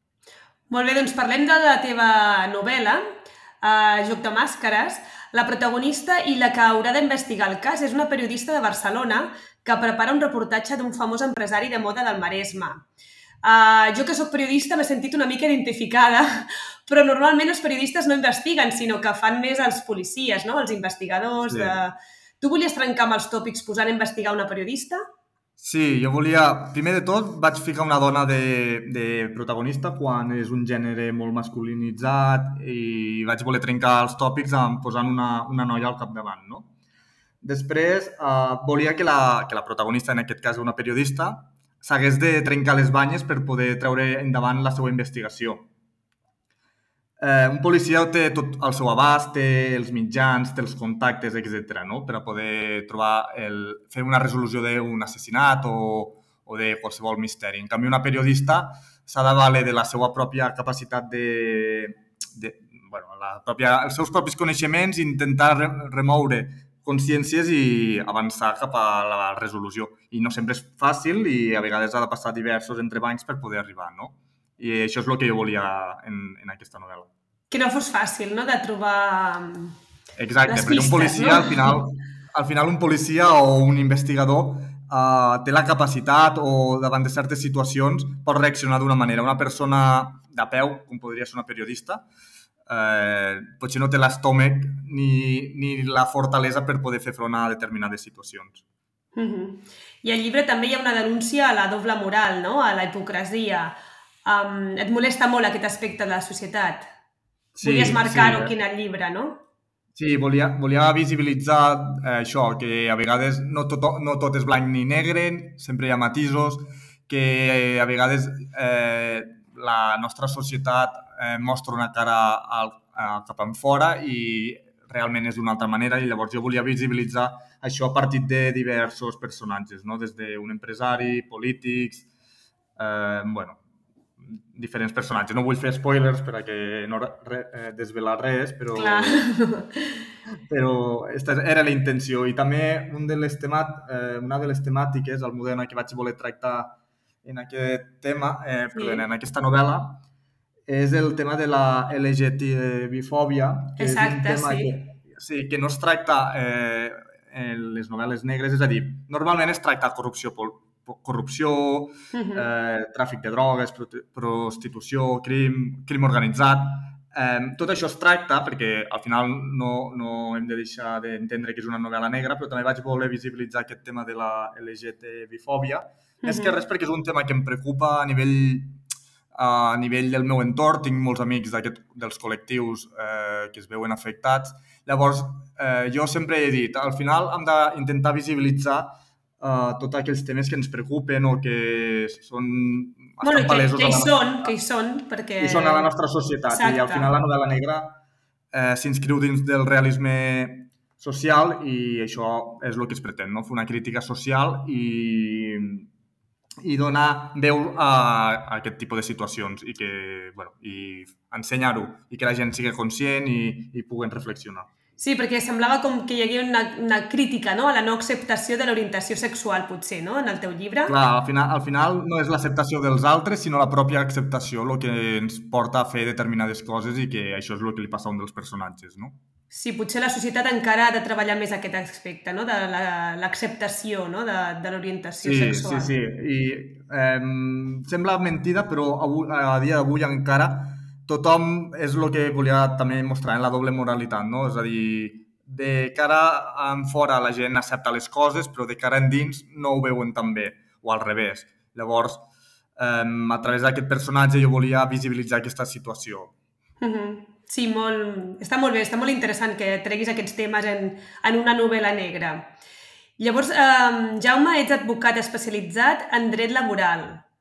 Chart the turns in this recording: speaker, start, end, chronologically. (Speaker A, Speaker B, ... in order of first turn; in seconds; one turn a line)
Speaker A: 0.7-3.0
Speaker A: 3.6-12.8
Speaker A: 13.4-25.0
Speaker B: 21.5-21.8
Speaker B: 25.6-36.7
Speaker B: 37.4-45.7
Speaker B: 47.2-77.1
Speaker A: 77.5-79.8
Speaker B: 80.2-92.1
Speaker A: 80.5-81.8
Speaker B: 92.7-98.6
Speaker A: 99.2-106.9
Speaker B: 107.5-108.5
Speaker A: 107.6-109.4
Speaker B: 110.0-132.1
Speaker B: 132.8-133.6
Speaker B: 134.2-139.3
Speaker A: 138.8-140.0
Speaker B: 140.5-150.0
Speaker A: 148.7-149.0
Speaker B: 150.7-178.8
Speaker A: 153.8-154.8
Speaker A: 162.1-162.5
Speaker A: 176.2-176.6
Speaker B: 179.3-194.5
Speaker A: 193.2-195.9
Speaker B: 195.4-198.0
Speaker A: 196.5-197.1
Speaker B: 198.5-205.9
Speaker B: 206.6-214.7
Speaker A: 215.0-220.9
Speaker B: 220.9-229.2
Speaker A: 229.5-235.9
Speaker B: 235.2-252.3
Speaker B: 252.8-256.3
Speaker A: 256.8-262.5
Speaker A: 263.2-267.2